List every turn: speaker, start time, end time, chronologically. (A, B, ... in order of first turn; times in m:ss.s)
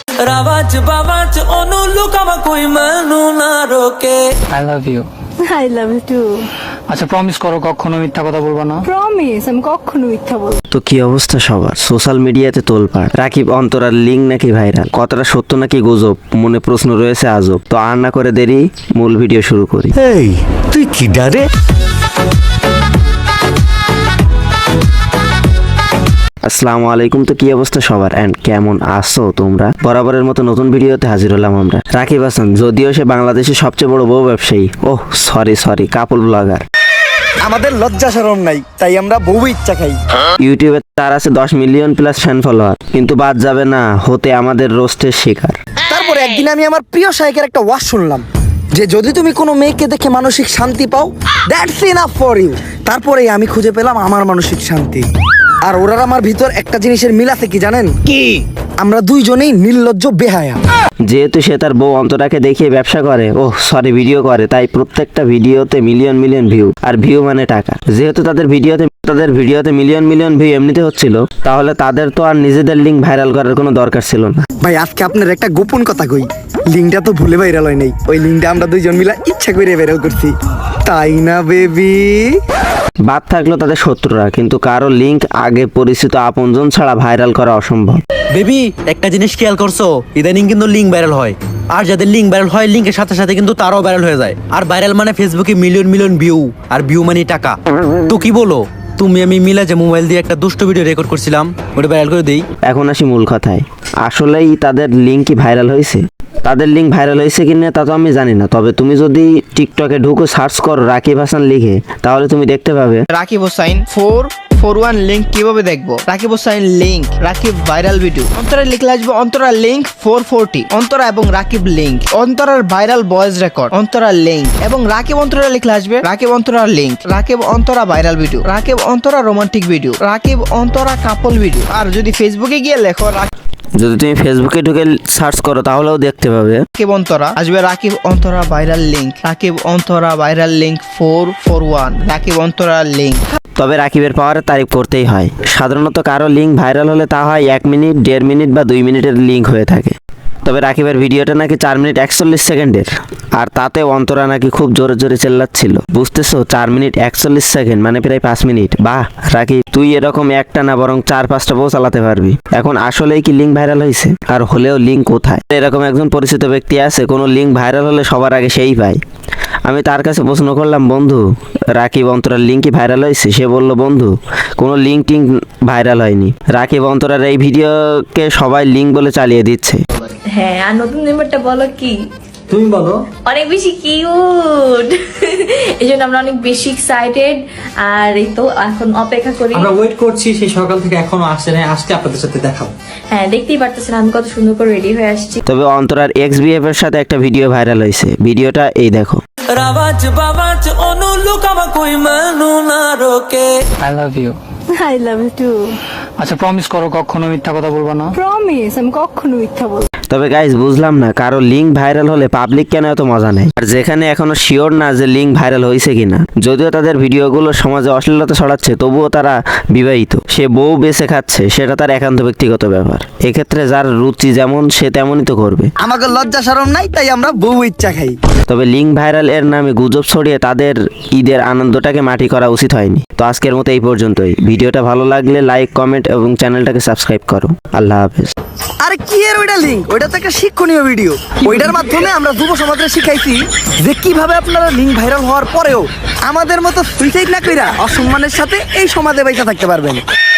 0:00.2-0:04.2 A
0:04.5-0:05.1 B
0:05.4-0:06.3 C
0:06.9-0:08.9 B
0:08.8-0:10.6 C
0:10.7-0:20.0 D
0:26.4-0:36.6 D
0:37.4-0:40.0 E
0:40.4-0:45.6 D
0:45.9-0:55.1 E
0:55.7-0:57.9 E
0:58.8-1:00.6 E
1:01.0-1:14.5 D
1:14.6-1:20.4 E
1:20.9-1:22.4 E
1:23.0-1:28.0 D
1:28.3-1:37.6 F
1:38.1-1:42.5 F
1:42.6-1:53.1 D
1:53.1-2:13.3 G
2:13.8-2:16.6 D
2:16.8-2:23.2 G
2:23.6-2:49.0 D
2:49.6-2:51.2 D
2:51.7-2:59.8 D
3:00.3-3:02.0 H
3:03.3-3:09.7 H
3:13.1-3:15.4 H
3:15.5-3:19.2 D
3:19.5-3:23.5 A
3:23.8-3:24.4 B
3:24.8-3:25.6 C
3:26.2-3:28.2 B
3:28.1-3:29.9 C
3:30.1-3:45.7 D
3:45.8-3:48.2 E
3:48.5-3:58.3 D
3:58.8-4:10.0 E